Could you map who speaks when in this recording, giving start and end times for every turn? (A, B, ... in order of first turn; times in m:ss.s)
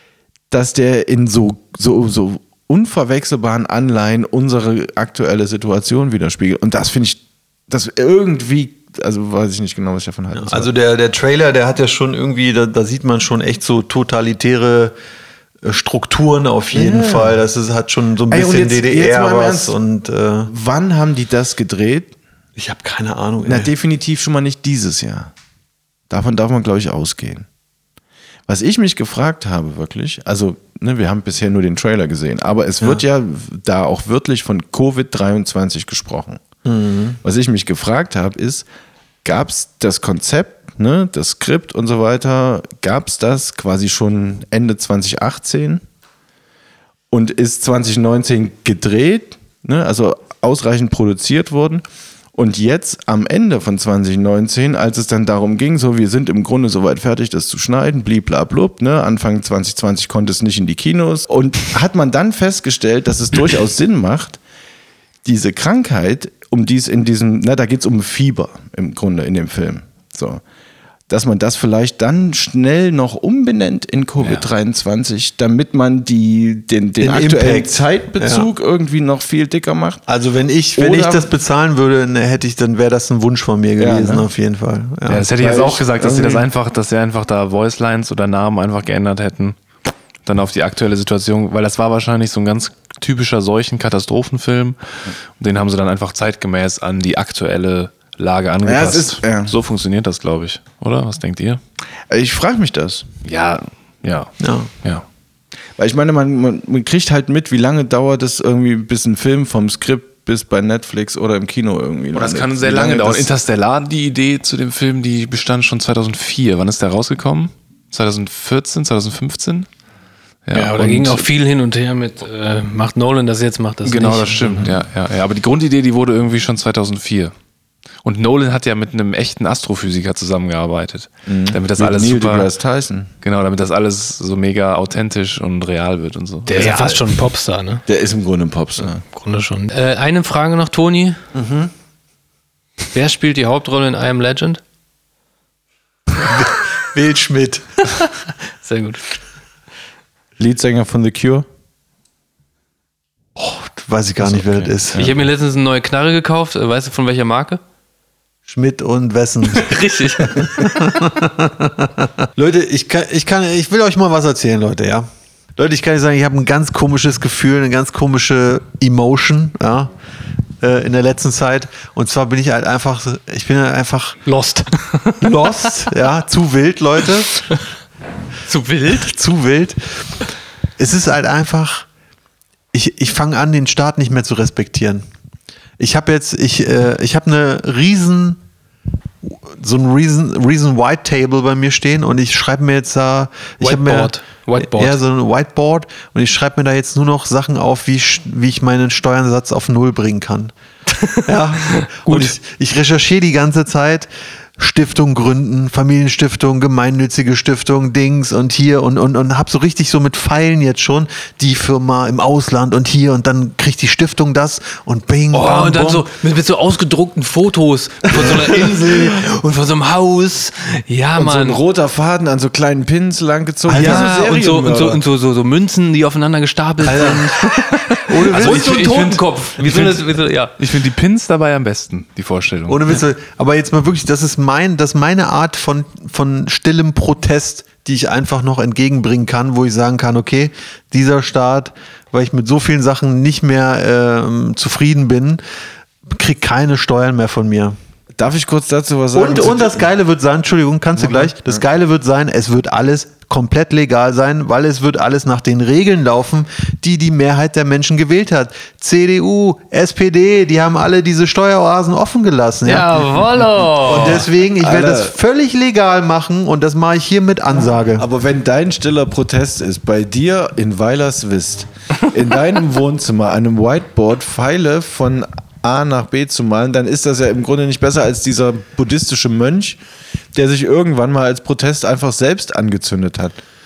0:00.5-0:10.7 A
0:10.3-0:14.9 B
0:15.6-0:20.5 B
0:16.7-0:17.4 A
0:18.3-0:19.8 A
0:20.5-0:22.1 A
0:22.6-0:23.7 B
0:23.4-0:25.3 A
0:26.1-0:27.5 A
0:28.5-0:36.4 A
0:36.6-0:37.2 B
0:37.2-0:38.7 A
0:39.2-0:45.8 A
0:47.1-1:04.4 A
1:05.2-1:10.4 A
1:11.1-1:20.0 A
1:14.2-1:14.4 C
1:17.0-1:18.5 B
1:20.1-1:25.2 B
1:20.8-1:21.3 A
1:23.8-1:24.3 A
1:25.1-1:29.6 C
1:25.2-1:26.5 A
1:30.2-1:34.8 C
1:35.4-1:41.6 C
1:38.6-1:39.6 A
1:42.1-1:43.1 A
1:43.2-1:45.0 C
1:44.4-1:44.7 B
1:45.8-1:53.3 A
1:52.1-1:59.7 C
2:00.5-2:01.3 C
2:00.5-2:04.7 D
2:03.8-2:07.3 C
2:08.0-2:12.5 C
2:11.3-2:13.1 A
2:13.2-2:17.0 C
2:16.5-2:17.8 D
2:16.6-2:16.9 A
2:17.9-2:19.0 A
2:19.1-2:21.2 D
2:21.4-2:21.7 B
2:22.9-2:24.6 D
2:26.2-2:27.6 B
2:28.6-2:29.0 D
2:30.4-2:31.5 A
2:33.4-2:35.0 B
2:34.3-2:35.1 A
2:34.9-2:37.6 D
2:38.5-2:49.9 B
2:39.5-2:40.8 D
2:50.6-2:54.2 B
2:54.2-2:55.3 D
2:55.2-2:57.3 B
2:58.5-2:59.1 D
2:58.9-2:59.8 B
3:00.8-3:01.9 B
3:02.7-3:05.0 B
3:05.8-3:08.4 B
3:09.2-3:20.5 B
3:13.6-3:15.0 D
3:20.9-3:22.4 D
3:21.3-3:36.1 B
3:35.3-3:41.6 D
3:38.1-3:39.2 B
3:41.2-3:45.0 A
3:43.7-3:44.1 B
3:43.7-3:50.5 D
3:46.8-3:47.4 B
3:48.1-3:48.8 B
3:48.3-3:53.0 C
3:52.7-4:05.4 B
4:06.1-4:07.8 B
4:08.2-4:09.9 A
4:09.1-4:23.1 B
4:11.0-4:11.6 A
4:22.6-4:24.3 D
4:23.8-4:28.1 B
4:23.9-4:25.2 A
4:28.0-4:39.8 A
4:40.3-4:43.4 A